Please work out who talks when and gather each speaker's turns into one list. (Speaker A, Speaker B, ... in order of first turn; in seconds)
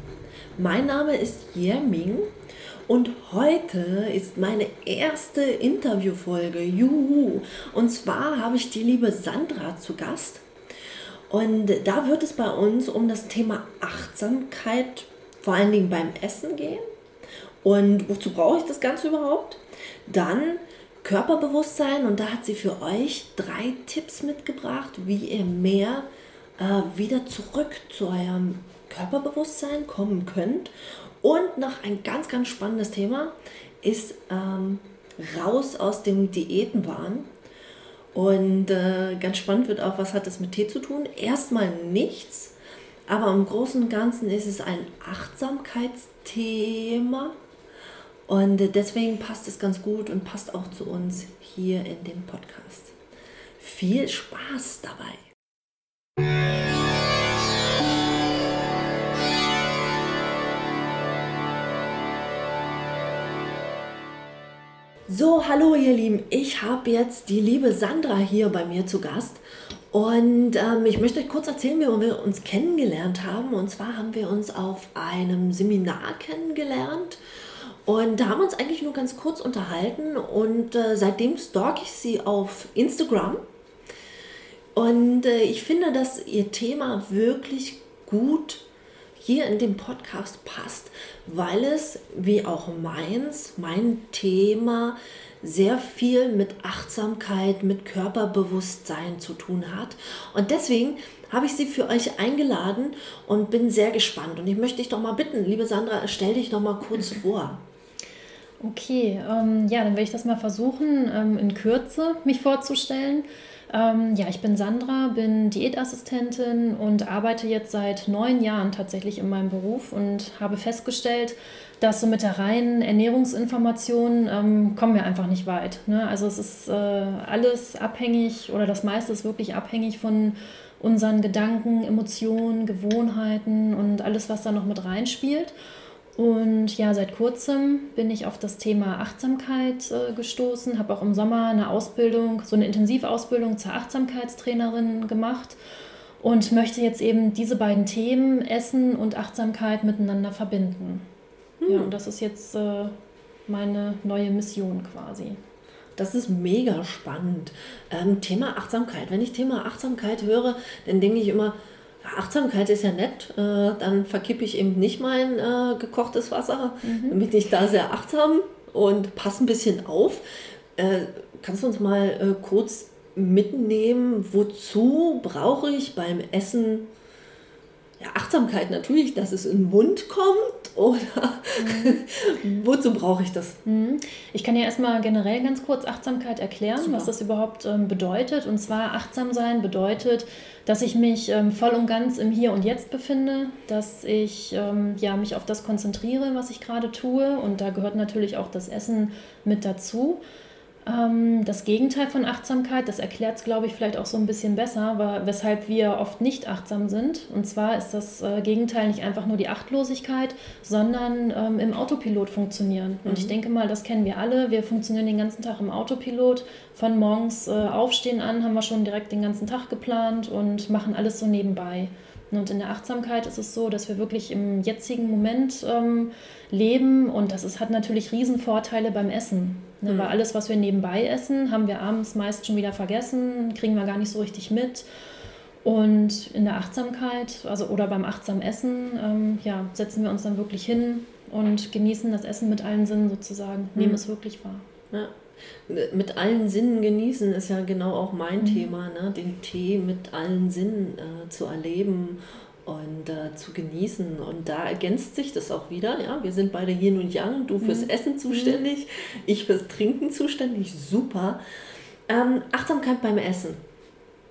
Speaker A: 0.6-2.3, 2.9-10.4, 11.3-16.8, 17.6-26.1, 26.6-37.3, 38.1-42.5, 43.1-47.4, 48.3-53.0, 53.6-55.3, 65.1-77.2, 77.8-83.4, 84.7-88.6, 89.2-107.6, 151.6-151.9, 156.0-176.9, 178.0-183.6, 186.8-187.1, 213.0-213.3, 229.8-230.1, 244.9-261.4, 262.1-263.6
Speaker B: 108.6-135.5, 136.2-145.6, 146.2-151.0, 151.7-152.9, 153.5-155.4, 166.8-167.2, 181.6-182.0, 183.6-200.2, 200.8-234.8, 235.6-244.6, 248.4-248.7, 257.6-258.6